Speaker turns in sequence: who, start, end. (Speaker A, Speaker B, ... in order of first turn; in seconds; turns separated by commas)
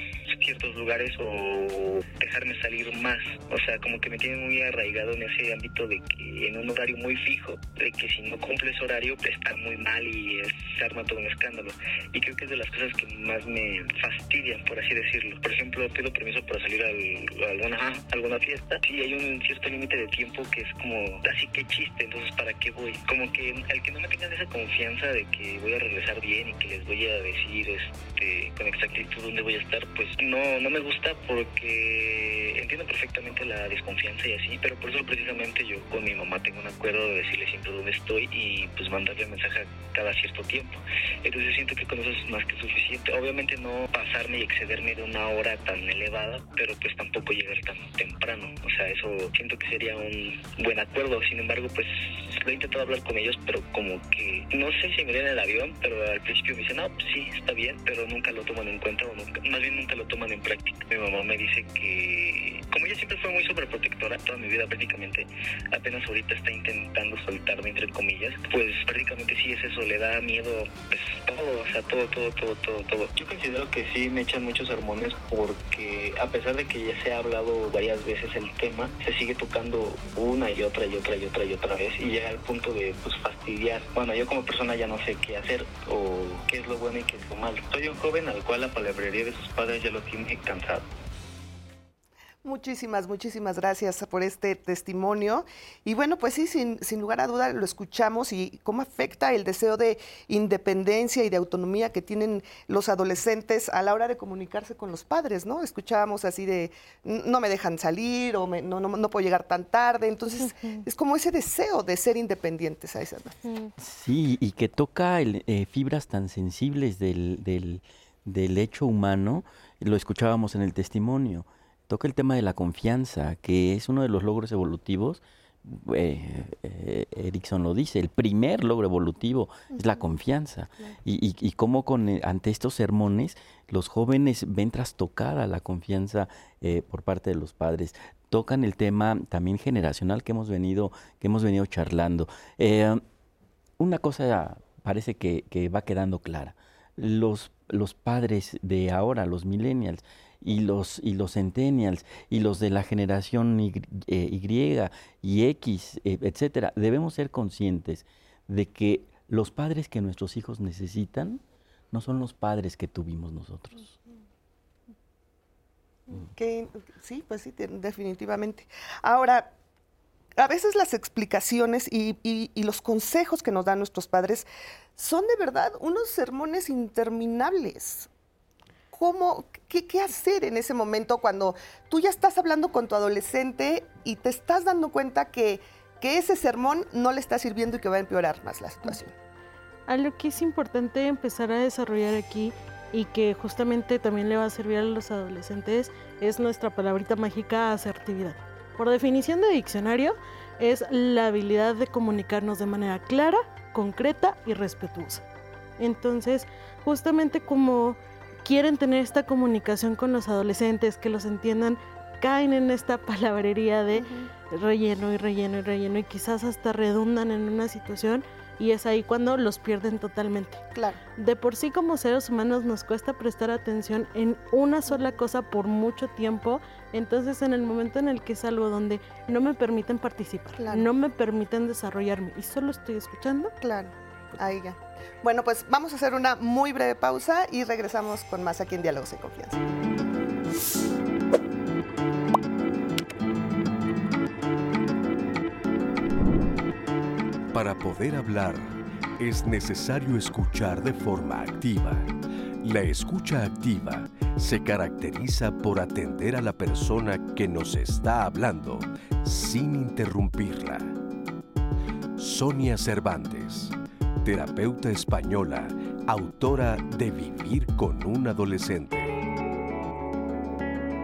Speaker A: 0.3-90.9, Speaker B: 92.4-113.4, Speaker C: 110.5-110.8, Speaker C: 113.4-113.7, Speaker D: 113.8-143.0, Speaker B: 129.7-130.1, Speaker D: 143.8-161.4, Speaker D: 161.9-163.9, Speaker B: 166.1-169.5, Speaker B: 170.4-178.1, Speaker B: 178.9-189.1, Speaker C: 189.9-205.2, Speaker C: 205.8-220.6, Speaker B: 213.9-214.3, Speaker B: 220.7-221.0, Speaker C: 221.2-233.5, Speaker B: 230.6-230.9, Speaker B: 233.6-239.6, Speaker E: 247.5-252.1, Speaker E: 252.6-260.9, Speaker E: 262.2-269.1